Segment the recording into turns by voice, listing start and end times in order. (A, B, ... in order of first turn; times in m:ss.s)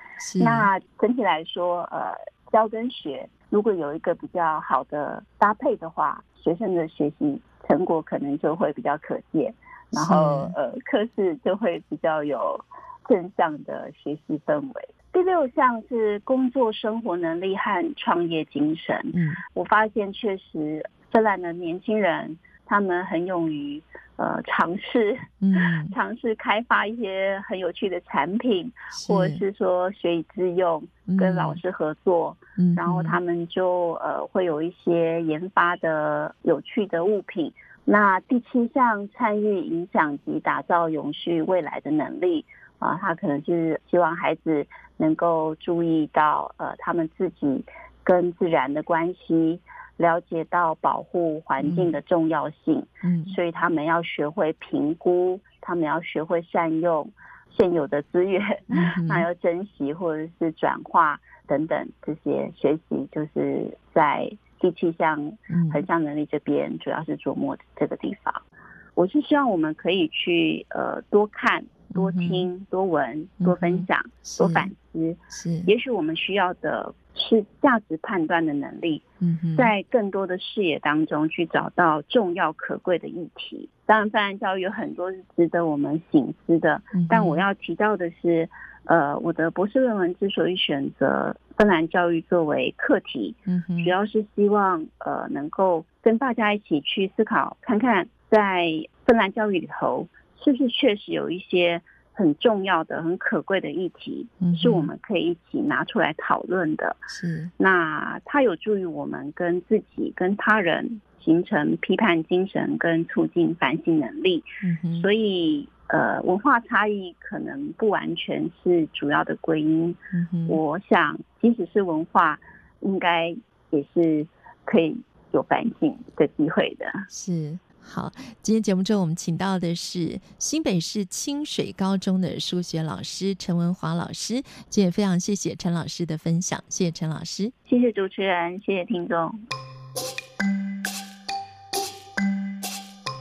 0:00.2-0:00.7 A
0:00.4-1:08.4 B
0:09.9-0:10.6 A
0:19.1-0:19.4 A
0:25.4-0:25.9 A
0:28.9-0:29.4 A
0:31.1-0:31.6 A
0:32.6-0:33.2 A
0:51.6-0:51.9 A
0:53.0-0:53.4 A
0:58.7-0:59.2 A
1:05.5-1:05.8 A
1:09.0-1:19.0 B
1:11.9-1:12.5 A
1:13.4-1:14.7 A
1:15.3-1:15.7 A
1:19.2-1:19.7 A
1:19.6-2:07.0 B
1:26.9-1:27.4 A
1:33.5-1:33.9 A
1:44.4-1:44.9 A
1:47.1-1:47.5 A
1:54.6-1:55.1 A
2:00.1-2:00.6 A
2:07.1-2:17.5 A
2:17.6-2:19.4 B